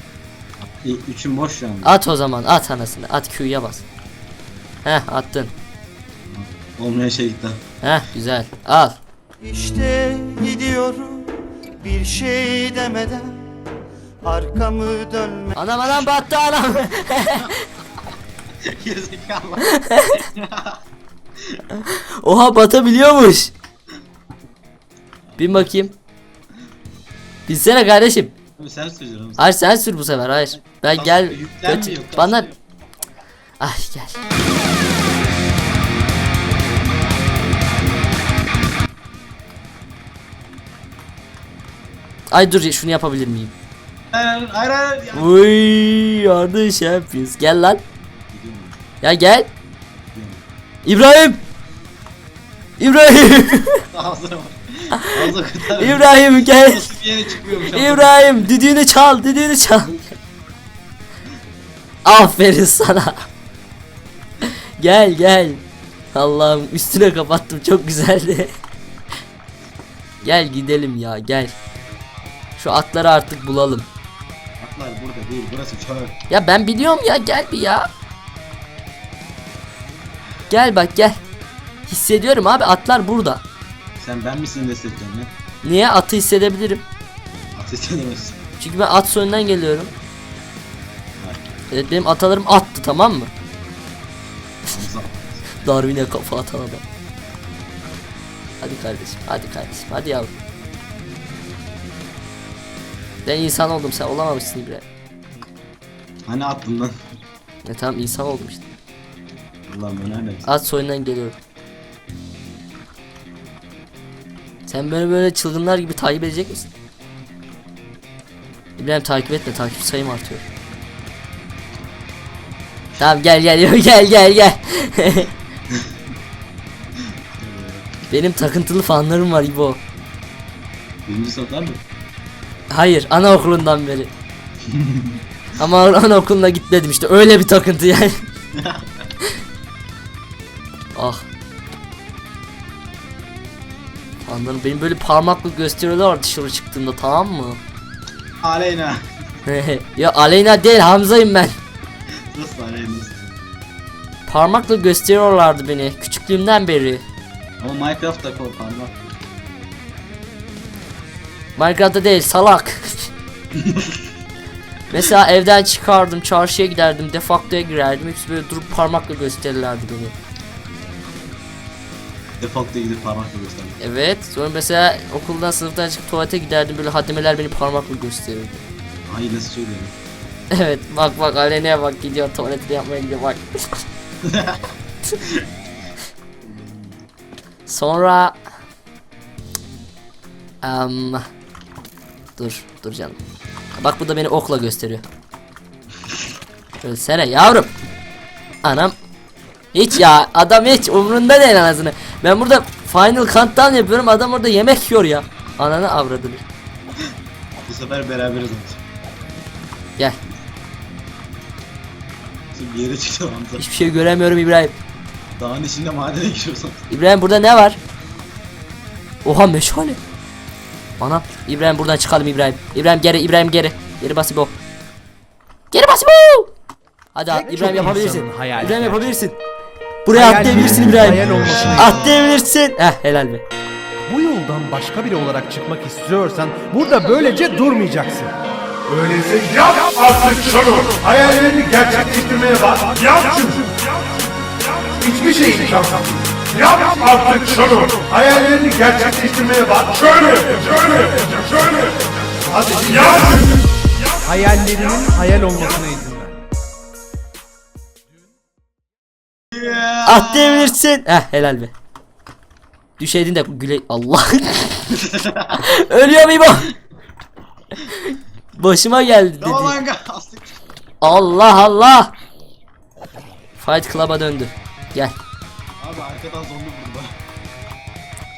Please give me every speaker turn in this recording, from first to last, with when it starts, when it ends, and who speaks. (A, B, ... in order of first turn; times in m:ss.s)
0:00.6-0:02.0 A
0:01.8-0:03.8 B
0:04.8-0:05.5 B
0:06.2-0:07.6 A
0:07.8-0:09.0 B
0:09.4-0:13.5 C
0:09.5-0:09.8 A
0:14.2-0:15.6 C
0:15.6-0:17.6 B
0:18.6-0:20.8 A
0:19.6-0:20.2 B
0:21.8-0:23.5 B
0:25.3-0:25.7 A
0:25.4-0:25.9 B
0:27.5-0:28.3 B
0:28.6-0:29.5 A
0:29.4-0:32.5 B
0:30.7-0:32.6 A
0:33.6-0:34.2 B
0:42.3-0:43.5 B
0:44.1-0:45.3 A
0:45.1-0:47.8 B
0:48.3-0:48.8 A
0:49.0-0:49.5 B
0:50.1-0:50.4 A
0:50.8-0:51.4 B
0:52.8-0:53.8 B
0:53.9-0:58.5 A
0:55.8-0:56.9 B
0:57.7-1:00.0 B
1:02.0-1:03.2 B
1:04.8-1:08.6 B
1:10.2-1:11.5 B
1:12.6-1:13.9 B
1:14.6-1:16.2 A
1:16.3-1:17.9 B
1:20.5-1:21.2 B
1:21.9-1:23.4 B
1:24.0-1:25.3 A
1:25.6-1:26.8 B
1:27.5-1:28.4 A
1:28.6-1:29.9 B
1:31.2-1:31.5 A
1:31.7-1:33.3 B
1:34.7-1:35.5 A
1:35.6-1:36.8 B
1:38.6-1:40.3 B
1:43.2-1:44.8 B
1:46.3-1:47.0 A
1:47.6-1:48.6 B
1:49.6-1:50.5 A
1:50.4-1:51.4 B
1:54.6-1:56.7 B
1:58.8-2:00.4 B
2:03.0-2:05.3 B
2:05.7-2:06.0 A
2:07.0-2:07.9 A
2:08.1-2:09.8 B
2:11.0-2:11.8 A
2:12.7-2:14.1 B
2:14.6-2:15.2 A
2:15.6-2:18.2 B
2:18.5-2:18.9 A
2:20.9-2:21.2 B
2:24.2-2:27.6 B
2:28.4-2:29.0 A
2:29.4-2:31.6 B
2:32.3-2:33.4 A
2:34.3-2:37.0 B
2:37.6-2:39.2 A
2:41.6-2:43.1 B
2:43.5-2:44.1 A
2:44.9-2:50.1 B
2:52.4-2:53.8 A
2:53.8-2:58.6 B
2:59.0-2:59.9 A
3:00.5-3:03.8 B
3:04.2-3:04.6 A
3:05.2-3:05.4 A
3:06.4-3:07.0 A
3:07.7-3:08.4 B
3:10.6-3:11.2 B
3:12.4-3:13.2 B
3:13.8-3:15.0 B
3:16.8-3:17.7 B
3:18.6-3:18.9 B
3:19.7-3:26.4 B
3:27.6-3:28.8 A
3:32.5-3:33.7 A
3:33.6-3:34.8 B
3:35.3-3:36.8 A
3:36.9-3:37.8 B
3:39.2-3:40.0 B
3:41.0-3:44.5 B
3:45.7-3:46.5 B
3:47.1-3:49.4 B
3:47.3-3:49.2 D
3:50.0-3:53.4 B
3:50.1-3:52.2 D
3:54.1-3:58.3 D
3:58.9-4:03.8 E
4:05.0-4:11.9 E
4:12.5-4:13.6 E
4:14.2-4:16.4 D
4:19.5-4:20.8 A
4:20.0-4:21.7 B
4:23.0-4:26.7 B
4:24.9-4:25.7 A
4:28.0-4:29.8 B
4:29.4-4:30.6 A
4:31.0-4:32.1 B
4:33.6-4:35.1 B
4:35.8-4:37.2 A